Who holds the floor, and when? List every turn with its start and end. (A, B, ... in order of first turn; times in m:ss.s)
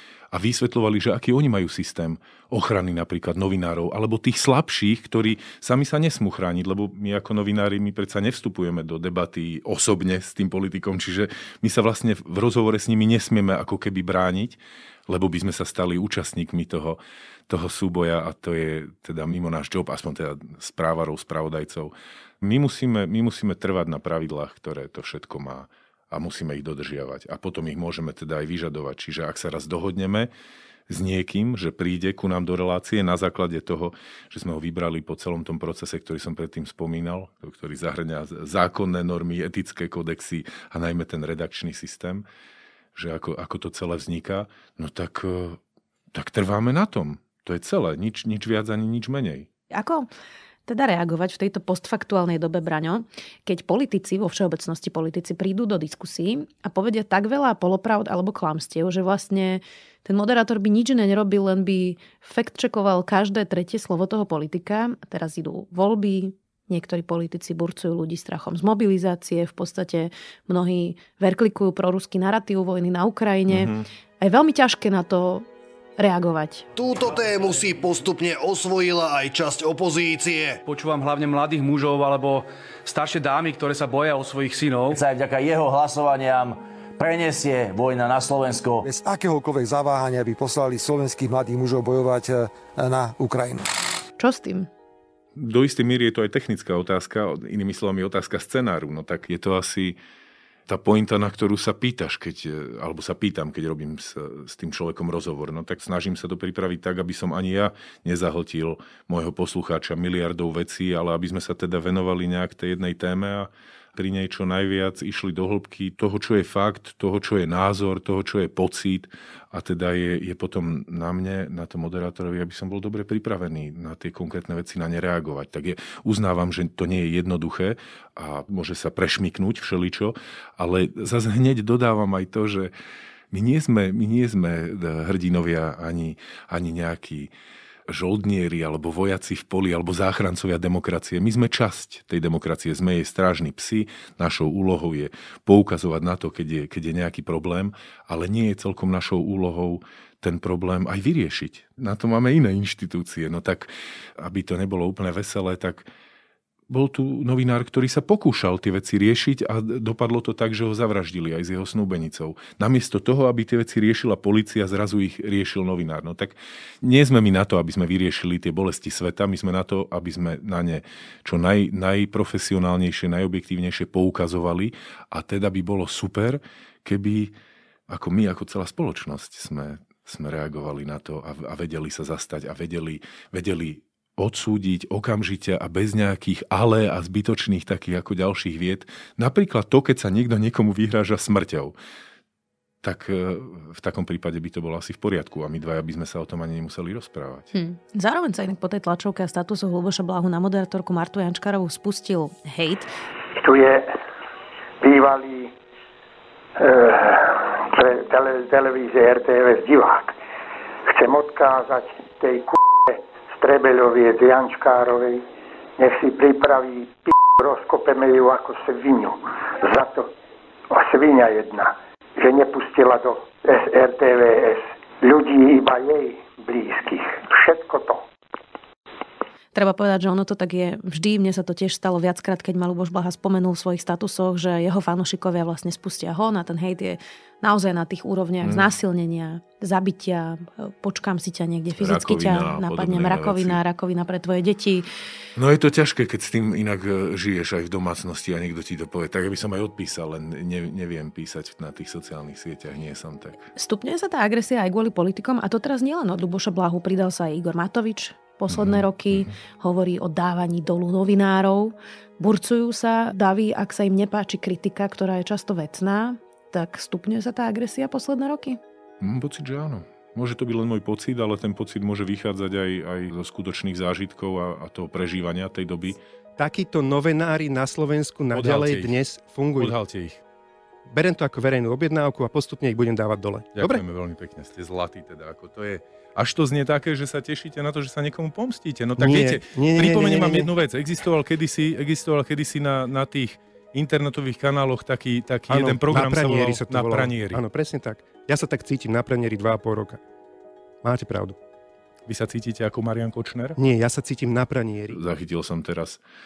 0:00.3-0:30.3 A
0:30.9-0:42.2 A
0:42.9-0:45.6 A
0:46.1-0:49.5 A
0:49.7-0:50.1 B
0:50.7-1:16.6 B
1:13.5-1:13.8 A
1:16.7-1:20.6 C
1:20.6-1:25.0 D
1:24.9-1:28.8 E
1:28.8-1:33.7 F
1:34.2-1:34.7 B
1:35.4-1:40.0 A
1:40.7-2:12.7 A
2:13.3-2:17.3 A
2:17.9-2:35.9 A
2:36.7-2:57.3 A
2:57.9-3:11.7 A
3:12.8-3:17.5 A
3:17.5-3:22.9 B
3:23.3-3:23.9 G
3:24.8-3:25.5 G
3:26.6-3:30.1 G
3:30.8-3:35.2 G
3:35.8-3:40.1 G
3:40.7-3:48.0 G
3:49.5-4:04.8 B
3:58.4-3:58.7 A
4:01.8-4:03.6 A
4:05.4-4:13.5 A
4:13.6-4:28.6 B
4:18.5-4:19.3 A
4:29.0-4:36.0 A
4:36.4-4:39.7 H
4:38.3-4:39.0 A
4:39.6-4:40.2 A
4:40.9-4:43.8 H
4:43.5-4:57.4 A
4:49.0-4:50.5 H
4:55.5-5:00.0 H
5:00.8-5:01.4 H
5:02.1-5:03.6 A
5:03.6-5:05.0 H
5:04.9-5:06.0 A